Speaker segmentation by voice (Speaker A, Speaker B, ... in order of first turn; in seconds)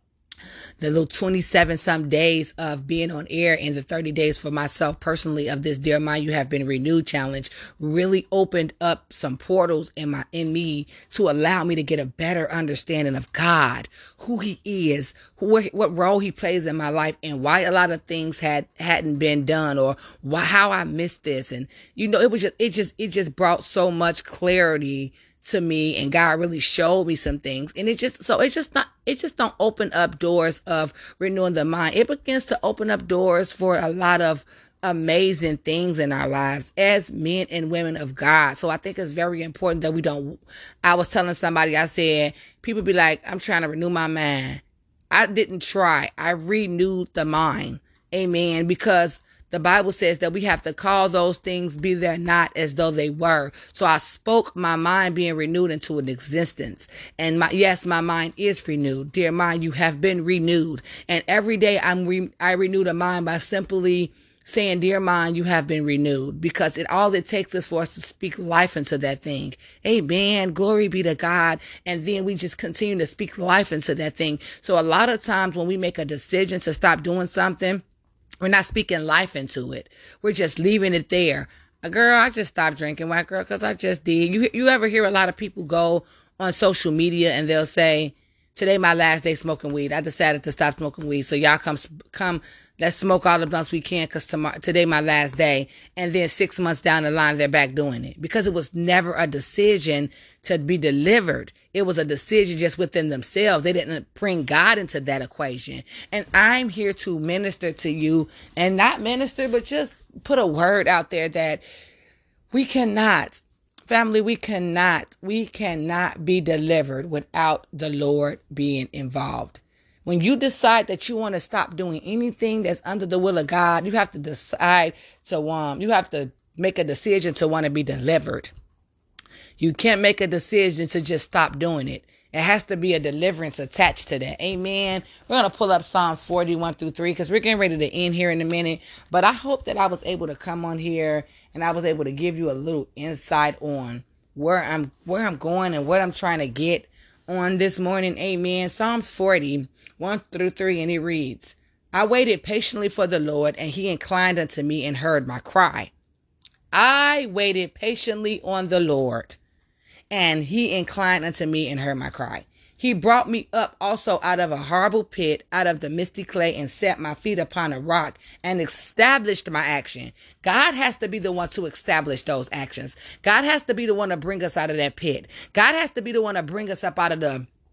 Speaker A: 0.8-77.8, 78.4-111.6, 112.5-128.5, 129.6-155.9, 156.7-159.4, 160.1-177.5